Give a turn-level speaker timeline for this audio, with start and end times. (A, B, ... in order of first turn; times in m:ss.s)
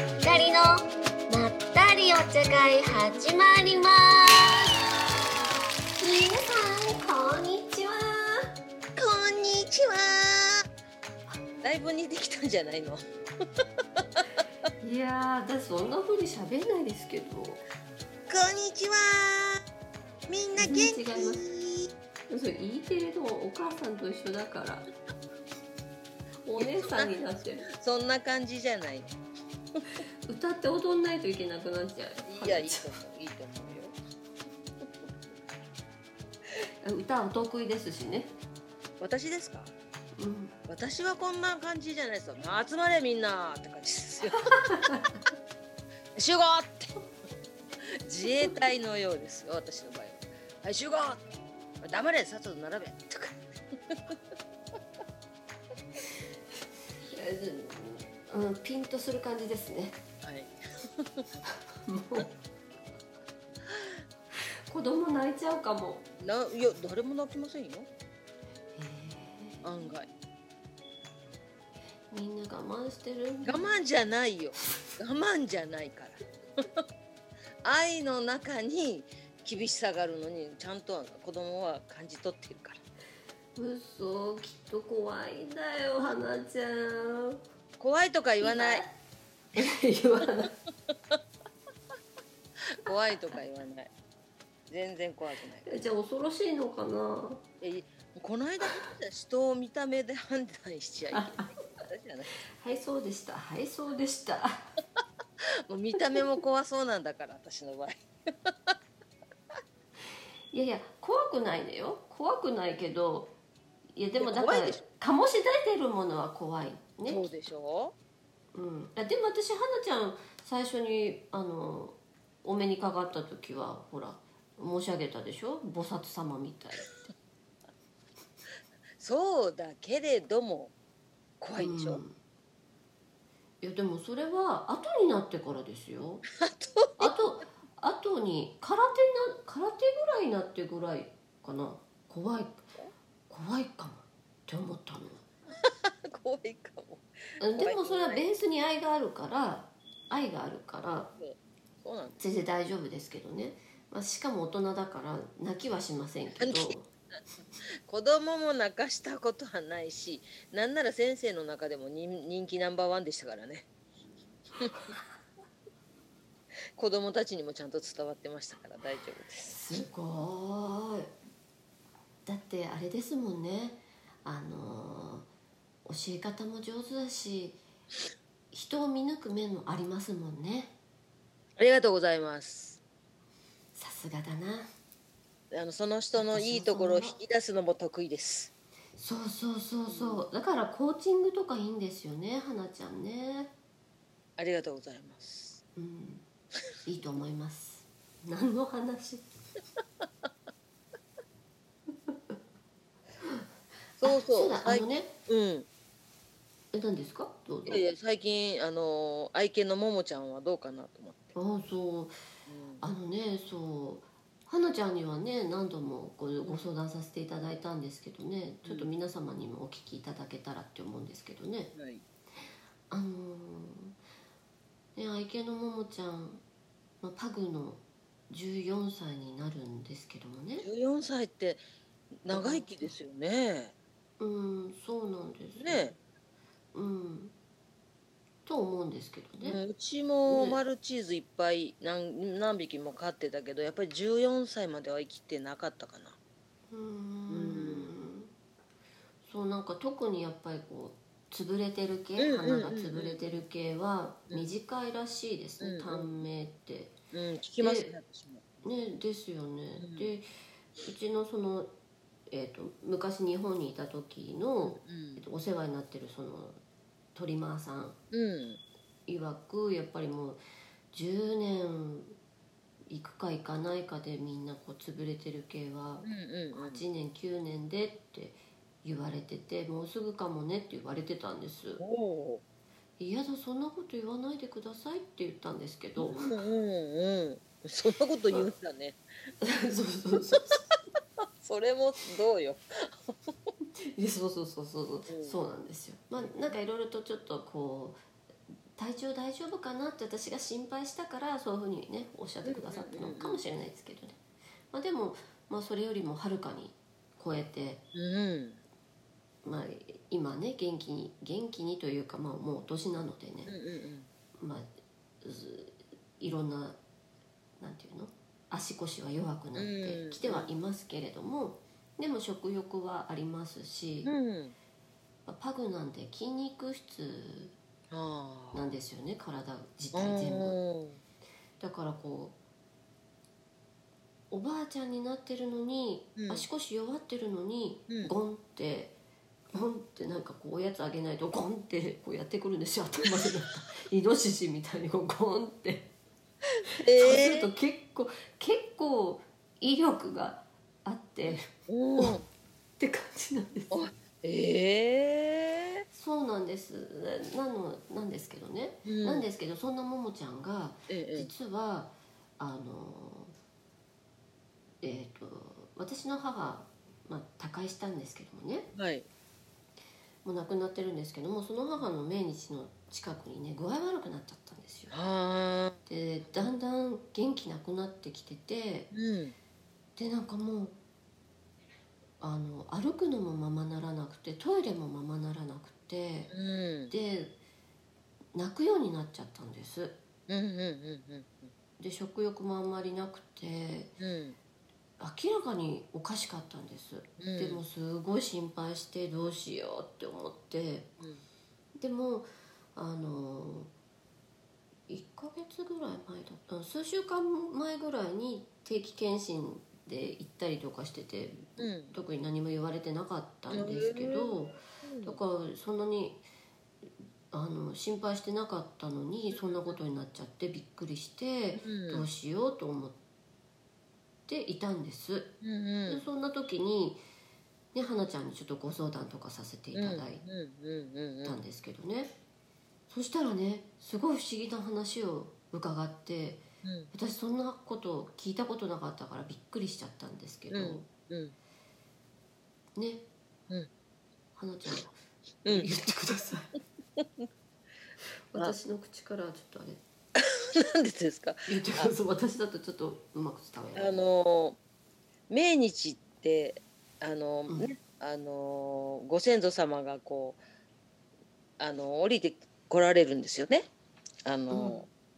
0:00.2-0:04.4 A
0:06.0-0:08.5 A
0:09.0-0:10.6 B
0:11.6-0:13.0 B
0:13.6-0:14.4 B
0:14.8-0:17.6 A
0:18.3-0:19.6 B
0:20.3-0:21.9 B
0:20.6-0:21.4 A
0:22.3-0:24.9 A
0:26.4-0:27.7 A
0:26.6-0:27.1 B
0:27.7-0:29.2 B
0:30.3-0:33.0 A
0:32.3-0:34.0 B
0:36.8-0:38.3 A
0:39.0-0:39.7 B
0:40.2-0:40.6 A
0:40.7-0:44.9 B
0:44.3-0:45.1 A
0:46.2-0:46.9 B
0:48.0-0:51.2 B
0:51.8-0:54.2 B
0:57.1-1:00.0 A
1:00.2-1:01.3 B
1:01.5-1:02.3 A
1:03.7-1:04.0 B
1:04.7-1:06.0 A
1:06.2-1:07.9 B
1:08.8-1:09.6 A
1:09.6-1:10.1 B
1:12.1-1:13.8 A
1:13.4-1:16.8 B
1:17.6-1:22.8 B
1:23.6-1:27.4 A
1:27.8-1:28.8 B
1:28.4-1:28.9 A
1:29.6-1:30.6 A
1:30.9-1:31.2 B
1:32.8-1:33.9 B
1:34.7-1:35.7 B
1:35.6-1:37.4 A
1:37.6-1:42.3 B
1:41.1-1:41.5 A
1:42.6-1:44.7 A
1:45.7-1:48.7 B
1:50.5-1:53.3 A
1:54.0-1:57.3 A
1:54.2-1:54.8 B
1:57.1-1:58.0 B
1:58.5-2:06.9 A
2:09.0-2:10.7 B
2:11.4-2:12.0 B
2:11.6-2:12.2 A
2:13.6-2:16.2 A
2:16.3-2:17.1 B
2:17.0-2:22.6 A
2:23.3-2:25.2 A
2:25.6-2:28.2 B
2:27.4-2:31.1 A
2:31.2-2:32.2 B
2:32.2-2:36.9 A
2:36.4-2:36.8 B
2:37.9-2:43.7 B
2:44.6-2:44.9 B
2:46.8-2:49.8 B
2:49.5-2:51.1 A
2:52.3-2:55.3 A
2:55.8-2:57.6 A
2:58.5-3:00.8 A
3:01.6-3:02.8 B
3:03.8-3:04.7 A
3:05.5-3:08.5 B
3:06.2-3:07.2 A
3:09.0-3:13.5 A
3:09.9-3:10.3 B
3:14.4-3:15.6 B
3:15.8-3:16.3 A
3:16.9-3:19.3 A
3:22.1-3:22.4 A
3:24.0-3:25.7 B
3:24.0-3:25.1 A
3:26.7-3:27.9 A
3:27.7-3:31.4 B
3:31.4-3:32.1 A
3:32.5-3:32.8 B
3:32.8-3:41.7 A
3:38.6-3:38.9 B
3:41.8-3:42.0 B
3:42.9-3:44.0 A
3:45.0-3:46.4 A
3:47.0-3:50.7 A
3:50.6-3:51.6 B
3:52.2-3:53.8 B
3:52.3-3:53.0 A
3:54.2-3:56.0 A
3:55.6-3:56.0 B
3:56.7-3:57.3 A
3:58.5-3:59.6 A
3:59.4-4:06.2 B
4:00.3-4:00.6 A
4:06.7-4:08.3 A
4:07.3-4:07.9 B
4:09.2-4:16.9 A
4:12.2-4:13.3 B
4:14.3-4:14.6 B
4:15.6-4:16.2 B
4:17.1-4:18.6 B
4:17.6-4:17.9 A
4:18.6-4:20.3 A
4:19.8-4:20.1 B
4:20.8-4:21.7 A
4:22.3-4:26.6 A
4:24.6-4:25.2 B
4:27.2-4:28.0 A
4:28.1-4:28.6 B
4:29.1-4:30.4 A
4:30.9-4:32.2 A
4:32.9-4:41.8 A
4:36.0-4:36.8 B
4:41.8-4:42.4 B
4:43.0-4:46.3 A
4:46.0-4:49.0 B
4:49.4-4:50.6 A
4:51.4-4:53.4 B
4:53.8-4:58.0 A
4:55.1-4:55.4 B
4:56.2-4:56.6 B
4:58.8-5:04.2 A
5:02.4-5:03.4 B
5:04.7-5:07.8 A
5:07.9-5:08.6 B
5:09.4-5:13.5 A
5:13.5-5:14.1 B
5:14.4-5:14.7 A
5:15.2-5:16.8 A
5:17.6-5:24.1 A
5:19.6-5:20.5 B
5:24.0-5:24.6 B
5:25.3-5:27.6 A
5:27.9-5:28.6 B
5:28.5-5:30.6 A
5:29.9-5:31.0 B
5:31.6-5:32.4 A
5:34.3-5:39.0 A
5:36.2-5:36.5 B
5:39.5-5:45.9 A
5:46.8-5:47.5 B
5:47.0-5:52.2 A
5:51.3-5:52.3 B
5:52.8-5:53.8 A
5:53.7-5:55.8 B
5:55.9-6:03.3 A
5:58.9-5:59.3 B
6:00.9-6:01.3 B
6:04.8-6:08.7 A
6:08.8-6:09.1 B
6:10.2-6:15.0 A
6:14.9-6:16.5 B
6:15.9-6:18.9 A
6:18.9-6:19.4 B
6:20.0-6:20.8 A
6:22.2-6:26.3 A
6:26.3-6:26.9 B
6:26.9-6:27.4 A
6:28.4-6:30.0 A
6:30.3-6:31.5 B
6:31.8-6:34.0 A
6:34.0-6:34.4 B
6:35.0-6:40.9 A
6:37.2-6:37.6 B
6:41.0-6:41.2 B
6:41.8-6:43.7 A
6:44.9-6:56.2 A
6:51.6-6:52.0 B
6:53.5-6:55.2 B
6:57.3-7:03.0 A
6:59.3-6:59.8 B
7:01.6-7:02.1 B
7:04.3-7:05.4 A
7:05.4-7:06.1 B
7:05.9-7:07.0 A
7:07.7-7:10.2 A
7:09.7-7:11.4 B
7:11.2-7:12.1 A
7:12.9-7:20.9 A
7:16.6-7:16.9 B
7:20.5-7:21.4 B
7:22.8-7:23.1 A
7:24.4-7:26.6 A
7:27.0-7:27.3 B
7:28.3-7:29.8 A
7:30.2-7:31.9 B
7:31.5-7:34.1 A
7:33.8-7:34.6 B
7:35.3-7:40.4 B
7:37.5-7:37.8 A
7:41.6-7:43.7 B
7:44.2-7:44.9 B
7:44.5-7:44.8 A